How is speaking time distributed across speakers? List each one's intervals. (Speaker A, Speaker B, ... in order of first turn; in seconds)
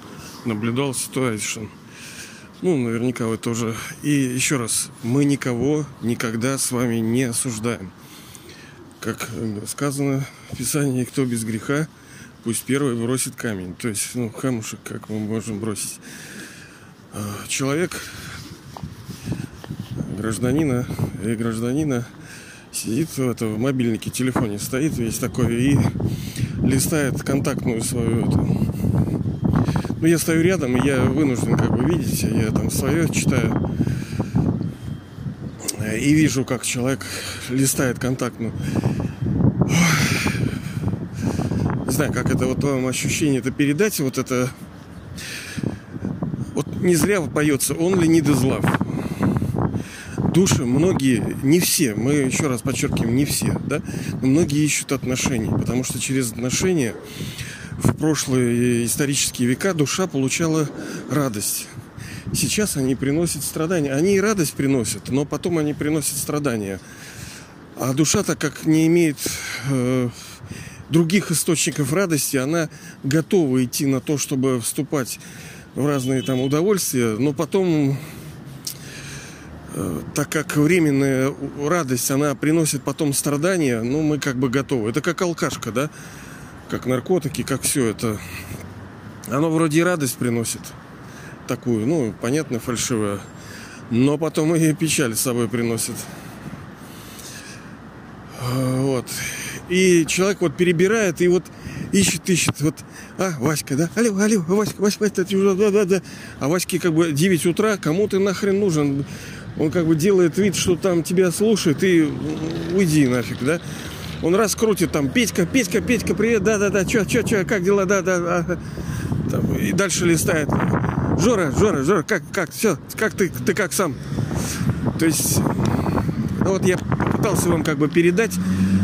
Speaker A: 0.4-1.7, 2.6-7.9, 9.0-11.9, 12.4-16.0, 17.1-18.3, 20.0-22.1, 22.7-26.0, 26.6-28.7, 30.0-33.6, 35.6-38.6, 39.6-40.5, 41.8-44.5, 46.5-49.3, 50.2-57.0, 57.8-61.7, 62.3-66.8, 67.8-70.4, 70.9-75.2, 75.7-78.0, 79.7-85.9, 86.7-88.2, 89.3-90.8, 91.5-93.2, 93.9-96.1, 98.3-113.6, 114.2-124.0, 124.9-128.4